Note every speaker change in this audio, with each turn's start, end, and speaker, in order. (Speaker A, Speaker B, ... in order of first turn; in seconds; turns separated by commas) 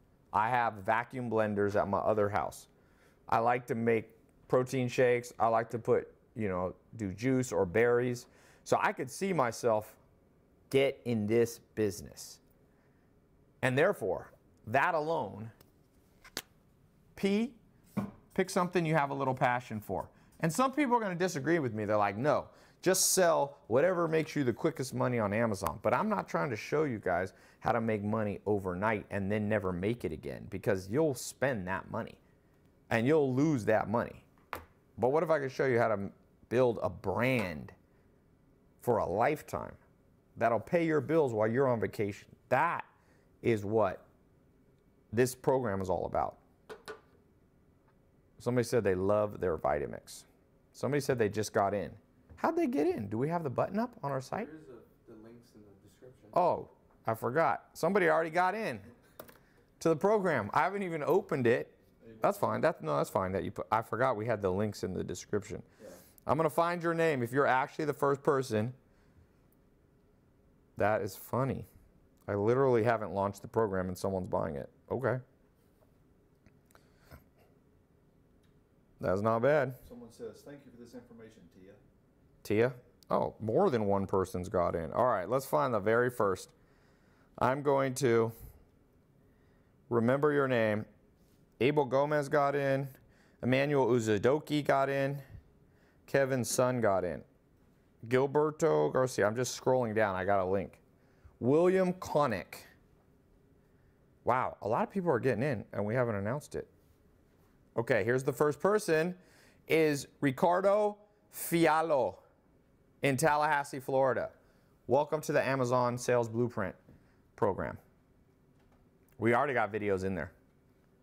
Speaker A: 0.3-2.7, Speaker A: 3.3-10.0, Speaker A: 10.7-12.4, Speaker A: 13.6-15.5, Speaker A: 17.1-17.6, Speaker A: 18.3-32.2, Speaker A: 32.9-34.2, Speaker A: 35.0-37.7, Speaker A: 38.8-39.8, Speaker A: 40.4-42.9, Speaker A: 43.4-44.0, Speaker A: 45.1-46.4, Speaker A: 48.4-54.5, Speaker B: 54.3-56.4, Speaker A: 56.3-58.9, Speaker A: 59.8-65.6, Speaker C: 62.0-62.4, Speaker A: 66.2-68.8, Speaker A: 70.8-71.7, Speaker A: 72.3-75.2, Speaker A: 79.0-79.8, Speaker C: 79.8-81.8, Speaker A: 82.4-86.5, Speaker A: 87.4-88.3, Speaker A: 89.9-90.9, Speaker A: 91.6-95.2, Speaker A: 96.1-97.2, Speaker A: 98.0-100.8, Speaker A: 101.4-102.7, Speaker A: 104.2-106.7, Speaker A: 107.8-112.2, Speaker A: 113.0-114.3, Speaker A: 114.9-116.8, Speaker A: 117.4-117.8, Speaker A: 119.2-120.3